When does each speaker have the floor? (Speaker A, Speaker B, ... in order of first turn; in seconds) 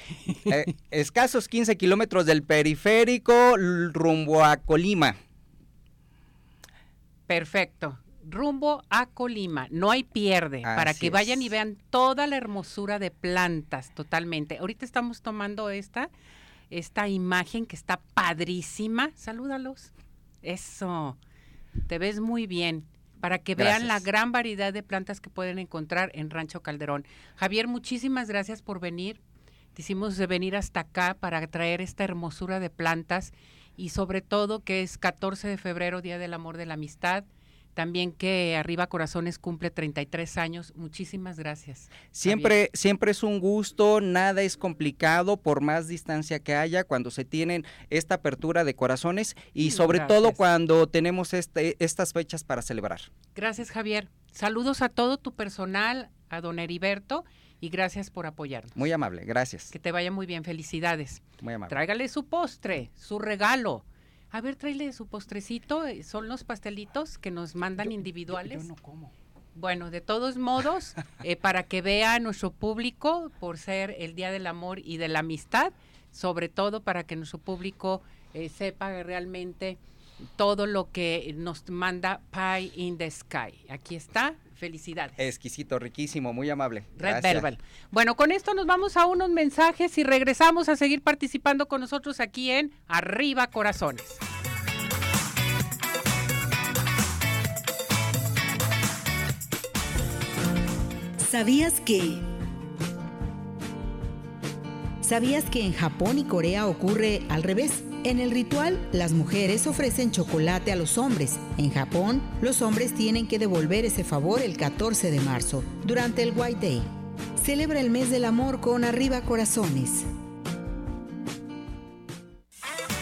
Speaker A: 0.5-5.1, 10.6-11.5, 23.6-24.0, 42.1-53.1, 58.8-59.7, 61.4-61.8, 67.8-69.1, 85.2-87.5
Speaker B: 7.3-16.1, 16.7-19.9, 20.4-21.2, 21.9-29.2, 29.7-42.5, 49.6-50.4, 53.3-58.8, 59.7-68.7, 69.5-79.8, 80.4-85.2, 87.0-94.2
Speaker C: 101.2-102.2, 105.0-120.1